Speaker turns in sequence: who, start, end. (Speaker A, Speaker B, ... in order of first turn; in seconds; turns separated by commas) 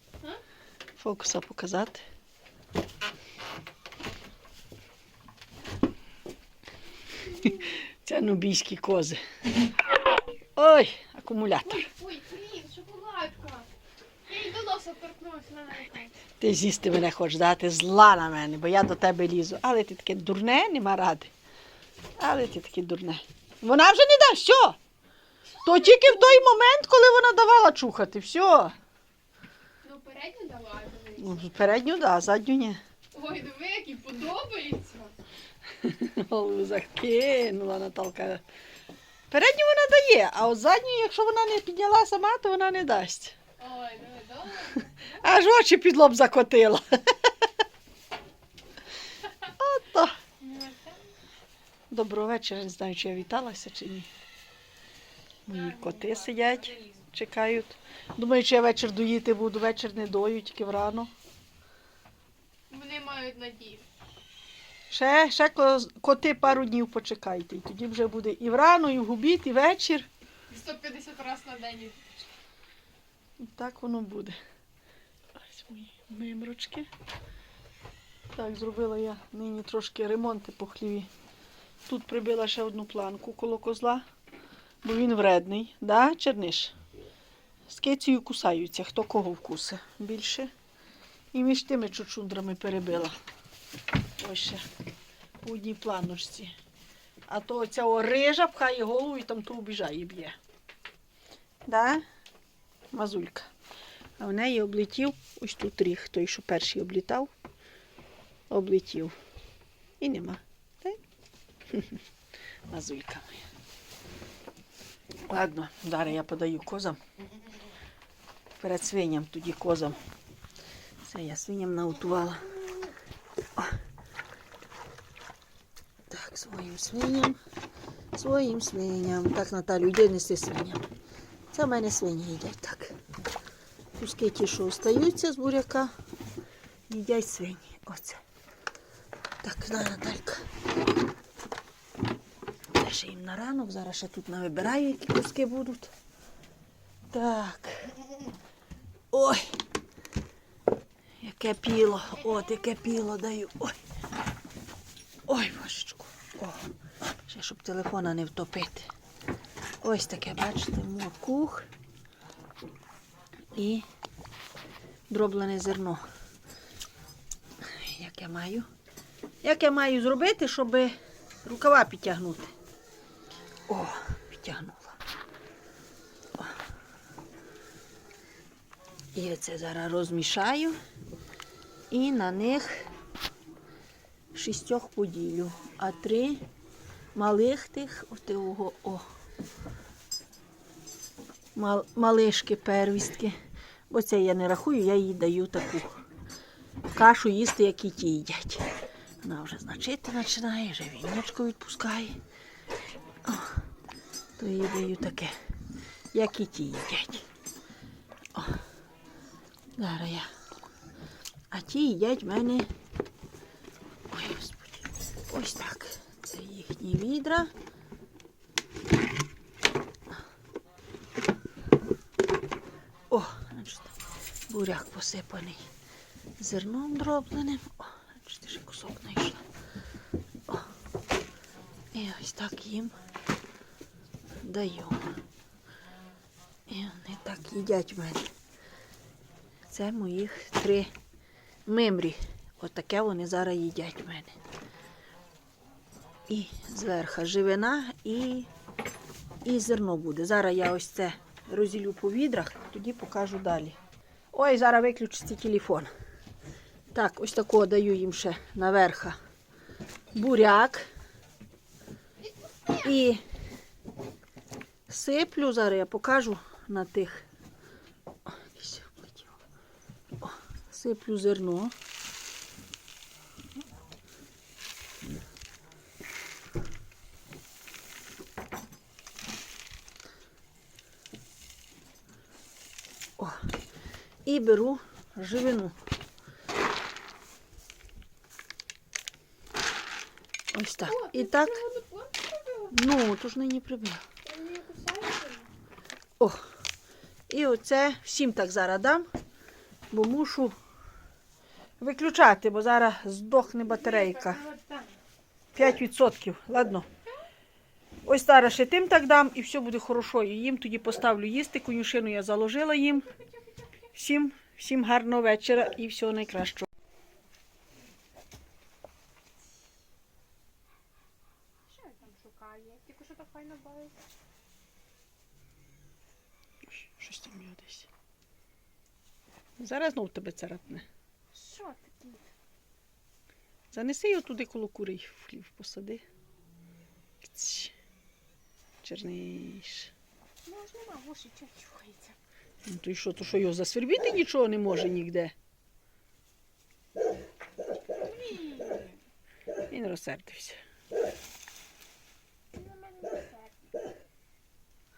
Speaker A: 1.0-2.0, Speaker A: 7.4-9.2, Speaker A: 10.6-11.9, Speaker B: 11.7-13.7, Speaker B: 14.2-16.2, Speaker A: 16.4-21.3, Speaker A: 22.2-24.8, Speaker A: 25.6-28.7, Speaker B: 25.7-26.4, Speaker B: 29.8-31.5, Speaker A: 31.2-32.8, Speaker B: 33.1-35.1, Speaker A: 35.8-38.4, Speaker A: 39.3-43.4, Speaker B: 43.6-45.1, Speaker A: 45.2-46.8, Speaker A: 49.4-50.2, Speaker B: 50.4-51.0, Speaker A: 51.9-54.1, Speaker B: 55.5-56.9, Speaker A: 55.5-61.1, Speaker B: 62.7-63.9, Speaker A: 64.9-70.1, Speaker B: 70.5-72.1, Speaker A: 73.4-74.4, Speaker A: 75.4-76.9, Speaker A: 78.3-81.1, Speaker A: 81.9-84.0, Speaker A: 84.8-86.7, Speaker A: 87.7-90.5, Speaker A: 91.3-93.2, Speaker A: 94.2-94.6, Speaker A: 95.4-96.5, Speaker A: 97.3-100.4, Speaker A: 101.7-102.0, Speaker A: 102.9-103.5, Speaker A: 104.2-107.3, Speaker A: 108.5-109.1, Speaker A: 110.0-111.0, Speaker A: 111.7-112.0, Speaker A: 112.7-113.5, Speaker A: 115.3-117.0, Speaker A: 118.6-120.0, Speaker A: 121.0-122.5, Speaker A: 126.1-127.4, Speaker A: 128.1-130.8, Speaker A: 131.5-132.9, Speaker A: 134.0-135.9, Speaker A: 136.9-138.2, Speaker A: 139.4-140.4, Speaker A: 142.7-145.9, Speaker A: 147.1-147.9, Speaker A: 149.1-149.4, Speaker A: 151.2-153.8, Speaker A: 155.3-156.7, Speaker A: 157.3-158.9, Speaker A: 159.8-161.7, Speaker A: 163.5-163.8, Speaker A: 165.1-166.0, Speaker A: 167.6-168.7, Speaker A: 169.4-170.9, Speaker A: 171.4-172.5, Speaker A: 173.7-175.0, Speaker A: 179.1-180.8, Speaker A: 181.9-182.9, Speaker A: 184.3-186.4, Speaker A: 187.1-189.0, Speaker A: 191.5-193.3, Speaker A: 193.9-195.9, Speaker A: 196.9-198.7, Speaker A: 199.2-202.2, Speaker A: 203.2-203.6, Speaker A: 204.4-205.3, Speaker A: 206.1-207.2, Speaker A: 208.3-208.6, Speaker A: 209.8-210.3, Speaker A: 211.5-212.7, Speaker A: 214.1-217.5, Speaker A: 223.1-223.9, Speaker A: 224.5-225.6, Speaker A: 226.4-229.4, Speaker A: 231.9-233.0, Speaker A: 234.4-235.2, Speaker A: 236.7-238.3, Speaker A: 239.7-240.9, Speaker A: 241.7-244.3, Speaker A: 246.3-248.5, Speaker A: 249.4-253.8, Speaker A: 254.3-255.9, Speaker A: 256.9-259.2, Speaker A: 260.1-260.9, Speaker A: 262.7-263.2, Speaker A: 264.9-267.2, Speaker A: 268.2-269.4, Speaker A: 270.2-271.7, Speaker A: 284.2-285.7, Speaker A: 290.5-291.6, Speaker B: 290.8-292.7, Speaker A: 292.7-294.0, Speaker B: 294.2-295.5, Speaker A: 297.3-299.1, Speaker A: 299.9-300.5, Speaker A: 301.8-304.4, Speaker B: 303.7-304.9, Speaker A: 305.5-306.9, Speaker A: 308.1-313.1, Speaker B: 313.0-313.7, Speaker A: 313.9-316.7, Speaker B: 321.7-324.1, Speaker A: 326.7-327.9, Speaker A: 329.6-330.9, Speaker B: 331.3-332.3, Speaker A: 333.7-336.0, Speaker A: 337.2-337.7, Speaker A: 338.8-339.9, Speaker B: 340.4-342.2, Speaker A: 342.6-345.3, Speaker B: 348.0-349.0, Speaker A: 349.7-350.6, Speaker B: 352.5-353.7